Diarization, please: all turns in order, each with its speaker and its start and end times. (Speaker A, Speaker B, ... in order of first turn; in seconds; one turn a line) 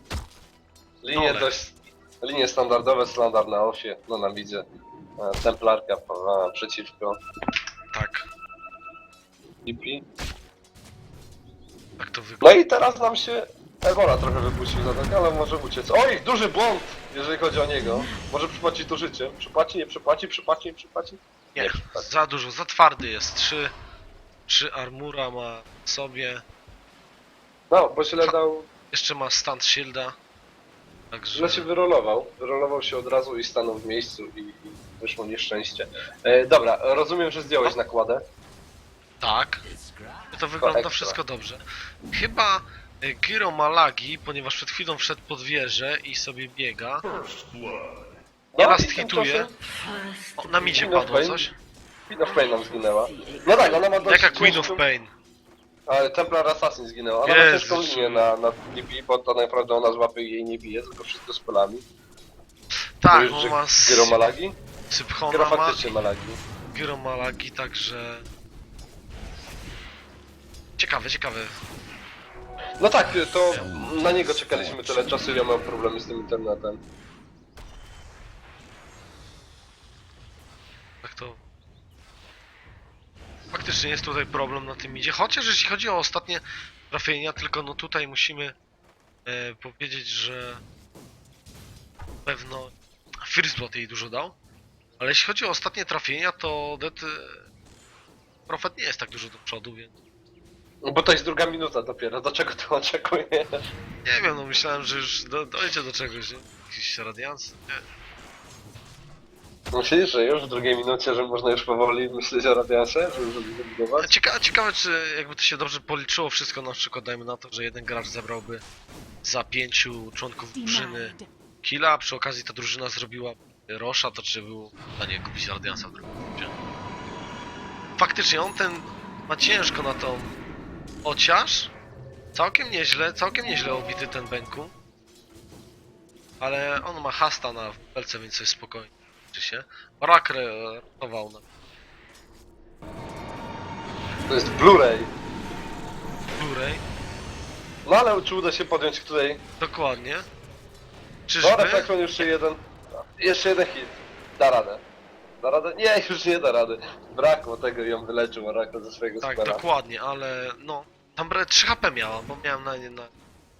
Speaker A: 1.0-4.7
Speaker B: 1.1-1.5
Speaker A: 5.2-7.2
Speaker B: 7.9-8.3
Speaker A: 9.7-10.1
Speaker B: 12.0-12.6
Speaker A: 12.4-22.1
Speaker B: 21.6-23.7
Speaker B: 24.5-26.4
Speaker A: 27.7-28.7
Speaker B: 28.9-30.2
Speaker B: 31.1-31.7
Speaker A: 31.4-38.2
Speaker B: 39.2-39.6
Speaker B: 40.3-47.1
Speaker A: 40.6-41.2
Speaker A: 48.5-49.5
Speaker B: 48.6-49.5
Speaker C: 49.6-51.0
Speaker B: 50.4-51.5
Speaker A: 50.7-51.5
Speaker A: 52.1-54.8
Speaker C: 52.2-54.7
Speaker B: 54.0-55.1
Speaker A: 55.9-61.8
Speaker B: 57.2-58.3
Speaker B: 63.0-64.2
Speaker A: 63.1-64.6
Speaker B: 64.9-65.9
Speaker A: 65.3-66.4
Speaker B: 66.7-68.2
Speaker B: 70.8-71.6
Speaker A: 72.8-76.8
Speaker B: 81.0-81.4
Speaker B: 83.5-88.6
Speaker B: 89.3-90.6
Speaker B: 92.2-94.3
Speaker B: 95.0-97.5
Speaker B: 98.5-99.9
Speaker A: 100.8-103.6
Speaker B: 104.0-107.8
Speaker A: 109.7-114.1
Speaker B: 114.0-118.6
Speaker B: 119.2-126.5
Speaker B: 128.0-130.4
Speaker B: 131.1-131.7
Speaker B: 132.3-134.7
Speaker B: 136.4-141.4
Speaker A: 144.3-145.1
Speaker B: 146.4-146.8
Speaker A: 147.8-149.4
Speaker B: 149.6-150.3
Speaker B: 151.3-152.3
Speaker A: 151.4-154.8
Speaker A: 155.4-159.6
Speaker B: 159.2-163.1